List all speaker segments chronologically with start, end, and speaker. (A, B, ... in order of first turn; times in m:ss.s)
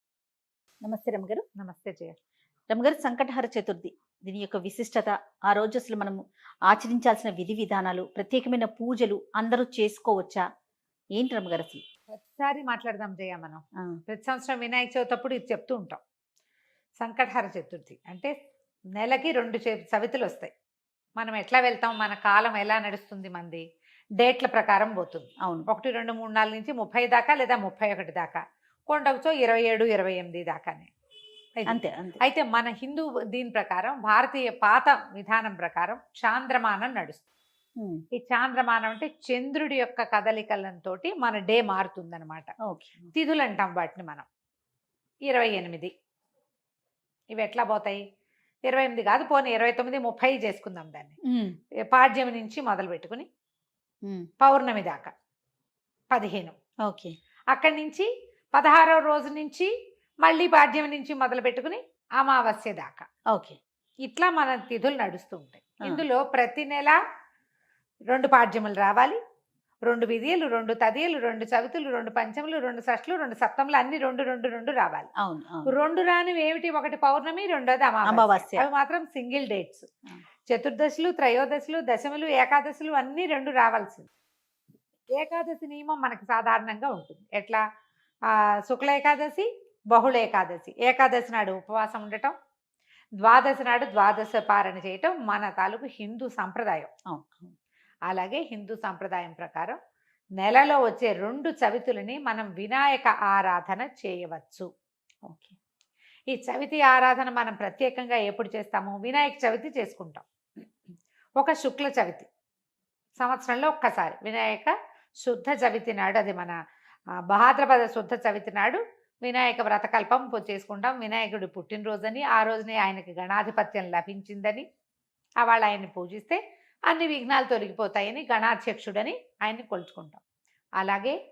0:00.8-0:01.4 A
0:01.6-0:02.2 B
0:02.7-0:10.4 A
0:11.2-0:11.8 A
0:12.1-0:16.0 B
0:17.0-0:18.3 B
0:19.0-0:20.5 B
0:21.2-0:23.6 B
0:24.2-0:30.9 B
0:31.6-0:37.2 B
0:31.7-0:32.2 A
0:38.1-0:42.5 B
0:42.6-0:43.0 A
0:43.1-0:44.3 B
0:45.3-0:45.9 B
0:47.3-0:48.0 B
0:48.7-0:51.2 B
0:51.2-0:51.6 A
0:51.9-0:53.3 B
0:54.4-0:55.1 B
0:56.1-0:56.5 B
0:56.8-0:57.1 A
0:57.5-0:59.7 B
1:00.2-1:03.0 B
1:03.3-1:03.6 A
1:04.0-1:07.0 B
1:08.1-1:09.2 B
1:09.9-1:15.1 B
1:15.2-1:15.7 A
1:15.6-1:19.9 B
1:18.0-1:18.6 A
1:20.5-1:24.1 B
1:25.1-1:27.6 B
1:28.3-1:32.3 B
1:33.2-1:36.9 B
1:37.1-1:37.5 A
1:38.1-1:39.8 B
1:40.4-1:44.7 B
1:45.2-1:45.5 A
1:46.3-1:50.2 B
1:51.4-1:52.3 B
1:53.2-1:54.7 B
1:55.2-1:56.5 B
1:57.3-2:04.6 B
2:05.4-2:10.2 B
2:10.8-2:11.2 B